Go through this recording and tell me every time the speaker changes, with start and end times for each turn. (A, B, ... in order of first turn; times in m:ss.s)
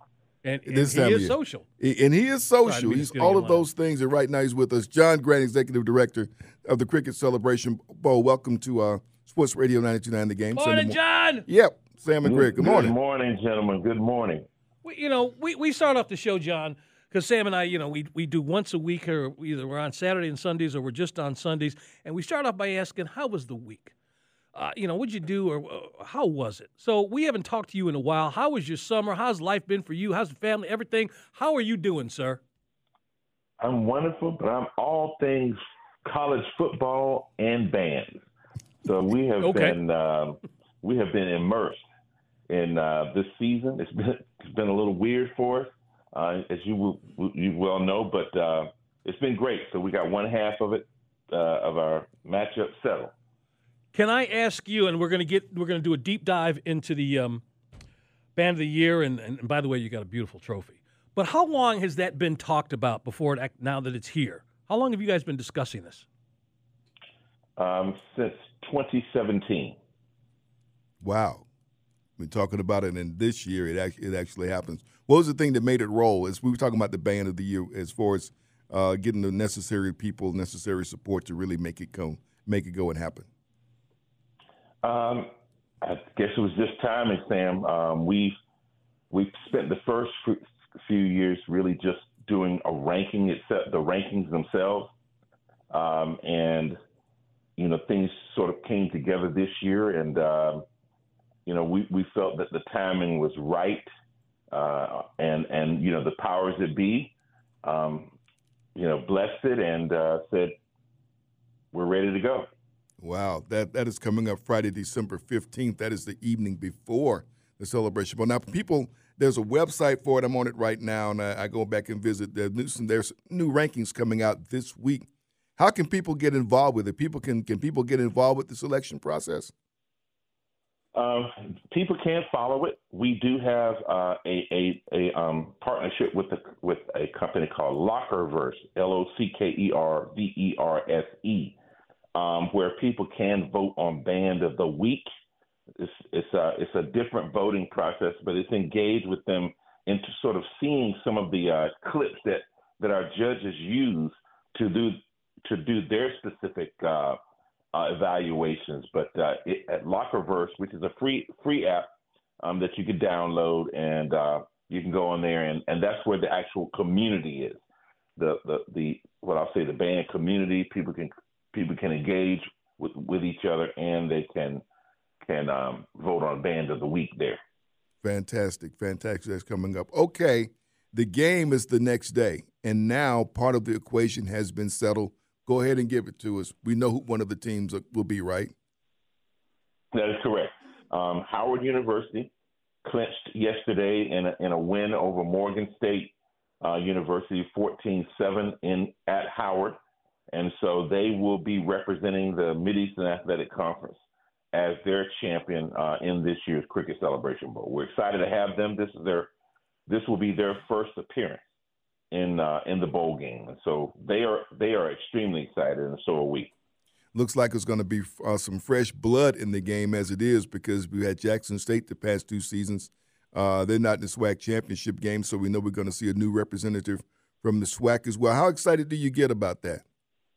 0:00.4-0:01.6 A
0:00.6-0:12.9 B
0:02.6-0:03.7 A
0:10.5-0:11.5 A
0:12.2-0:14.4 C
0:14.8-0:23.9 A
0:24.5-0:32.4 A
0:33.6-0:38.2 C
0:38.8-0:41.8 C
0:39.4-0:39.8 A
0:42.5-0:53.1 C
0:53.9-0:57.4 A
0:58.4-1:06.0 A
1:07.6-1:09.8 C
1:11.0-1:11.4 B
1:12.2-1:23.3 B
1:24.8-1:25.3 C
1:25.8-1:28.3 C
1:29.1-1:34.9 C
1:35.7-1:36.8 C
1:37.6-1:40.6 C
1:41.4-1:43.8 C
1:44.5-1:47.1 C
1:47.6-1:48.1 C
1:48.8-1:50.5 C
1:51.7-1:52.5 C
1:53.0-2:09.5 B
2:11.0-2:21.6 C
2:22.1-2:25.1 C
2:25.8-2:37.2 C
2:37.7-2:41.9 C
2:42.4-2:47.6 C
2:48.2-2:54.6 C
2:55.2-2:57.4 C
2:58.0-3:08.5 B
3:09.9-3:12.3 C
3:12.8-3:19.8 C
3:20.3-3:29.3 C
3:29.9-3:31.4 C
3:32.1-3:36.5 C
3:37.1-3:49.8 B